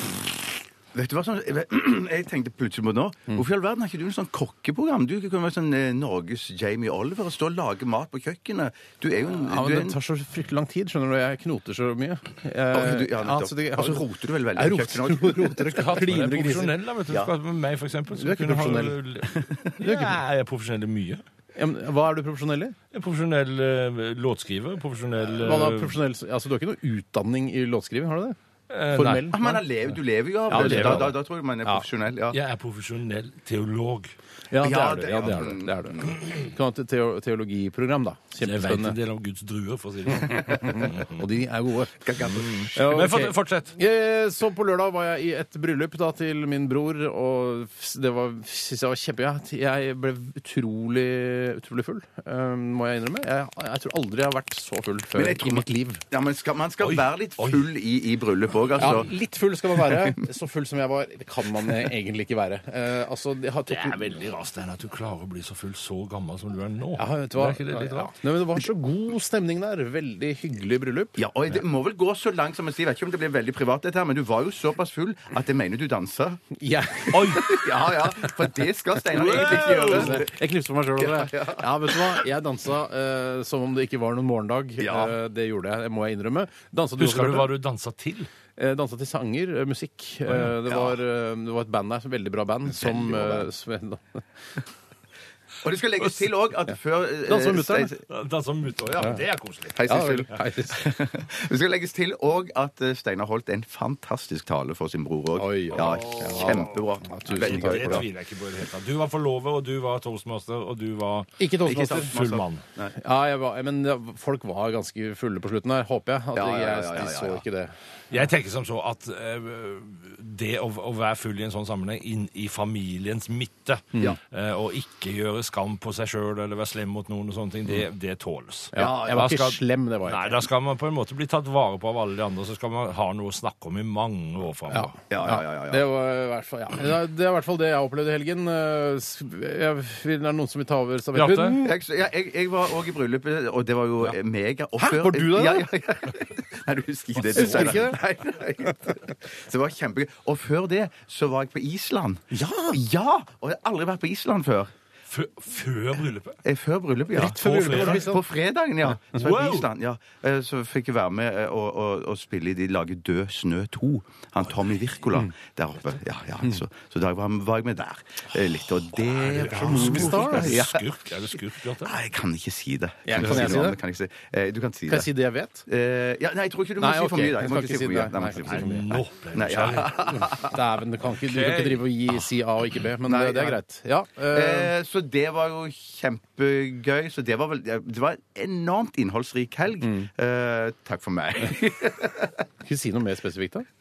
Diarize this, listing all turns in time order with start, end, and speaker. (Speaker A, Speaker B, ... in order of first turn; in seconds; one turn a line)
Speaker A: 0.9-10.0
Speaker B: 9.4-16.7
Speaker A: 12.7-15.6
Speaker C: 15.7-21.2
Speaker B: 18.1-19.0
Speaker A: 19.3-19.7
Speaker B: 19.8-20.1
Speaker B: 21.5-22.8
Speaker C: 22.9-25.9
Speaker B: 25.4-28.4
Speaker C: 28.7-29.4
Speaker B: 28.9-29.9
Speaker A: 29.3-32.4
Speaker B: 30.5-31.8
Speaker C: 30.5-31.1
Speaker C: 32.3-34.1
Speaker B: 34.5-39.0
Speaker A: 34.6-36.1
Speaker C: 38.4-41.2
Speaker B: 40.3-42.1
Speaker A: 42.0-42.7
Speaker C: 42.5-43.7
Speaker B: 42.7-56.0
Speaker A: 55.1-59.1
Speaker C: 56.8-57.7
Speaker C: 58.8-59.0
Speaker B: 58.8-64.2
Speaker A: 59.8-60.2
Speaker C: 63.7-68.2
Speaker B: 67.0-71.2
Speaker A: 71.2-76.4
Speaker B: 76.6-78.3
Speaker A: 77.1-80.3
Speaker C: 77.1-77.5
Speaker C: 79.1-80.2
Speaker B: 79.2-87.5
Speaker A: 81.0-82.2
Speaker A: 84.8-85.1
Speaker C: 87.0-88.3
Speaker B: 88.5-94.2
Speaker C: 90.3-90.5
Speaker A: 92.8-93.5
Speaker A: 95.6-98.0
Speaker B: 97.2-97.9
Speaker C: 98.1-100.0
Speaker A: 99.7-108.0
Speaker B: 99.8-100.8
Speaker B: 105.3-108.1
Speaker C: 105.7-112.6
Speaker B: 111.4-112.2
Speaker A: 111.7-112.9
Speaker B: 113.0-117.7
Speaker A: 116.3-117.4
Speaker C: 118.1-134.9
Speaker B: 128.7-130.4
Speaker A: 128.7-129.3
Speaker B: 134.7-141.7
Speaker A: 135.1-135.8
Speaker C: 141.1-141.6
Speaker A: 141.6-154.7
Speaker B: 144.8-145.7
Speaker B: 147.2-148.0
Speaker B: 152.3-152.8
Speaker C: 155.1-156.4
Speaker A: 156.4-175.1
Speaker B: 157.1-158.2
Speaker C: 157.2-158.2
Speaker C: 159.1-159.7
Speaker C: 169.0-172.0
Speaker B: 169.6-170.6
Speaker B: 173.0-173.8
Speaker C: 173.2-173.6
Speaker B: 174.9-175.7
Speaker A: 175.7-178.7
Speaker B: 176.8-179.0
Speaker C: 178.4-180.3
Speaker A: 179.3-180.6
Speaker B: 179.8-184.7
Speaker C: 181.1-182.3
Speaker A: 183.0-183.6
Speaker A: 184.3-192.4
Speaker B: 189.8-190.1
Speaker B: 192.6-193.7